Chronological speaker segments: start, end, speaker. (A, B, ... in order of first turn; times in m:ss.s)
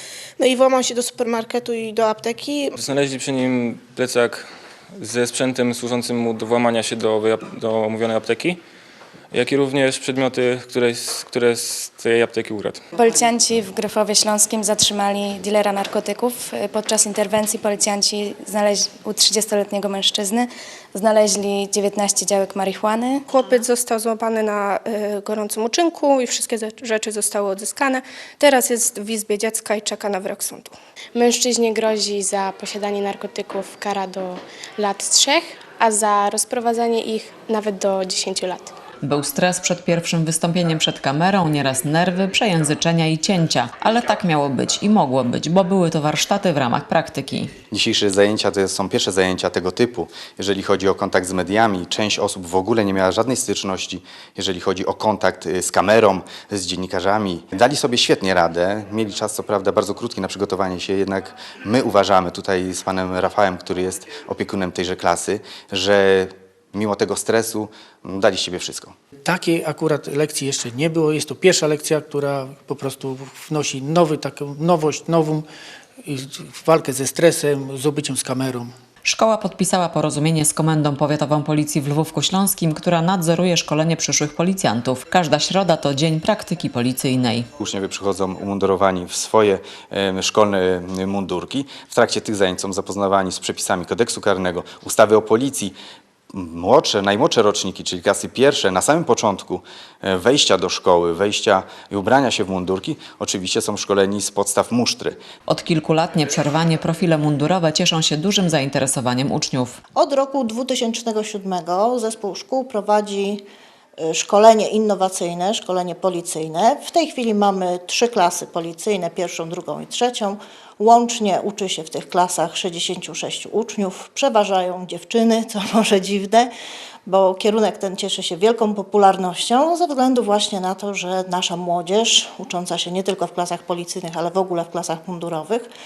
0:00.4-0:02.7 A
0:02.8-0:08.6 B
0:09.3-0:12.8 B
0:12.9-0:23.3 C
0:23.3-0:30.7 D
0:31.1-0:38.7 E
0:39.0-0:47.5 F
0:47.7-1:08.9 G
1:09.2-1:15.4 H
1:16.0-1:18.7 H
1:19.0-1:27.5 F
1:27.6-1:35.7 G
1:36.3-1:45.2 G
1:45.5-1:49.8 F
1:50.0-1:53.4 I
1:54.0-2:06.5 I
2:07.0-2:15.7 I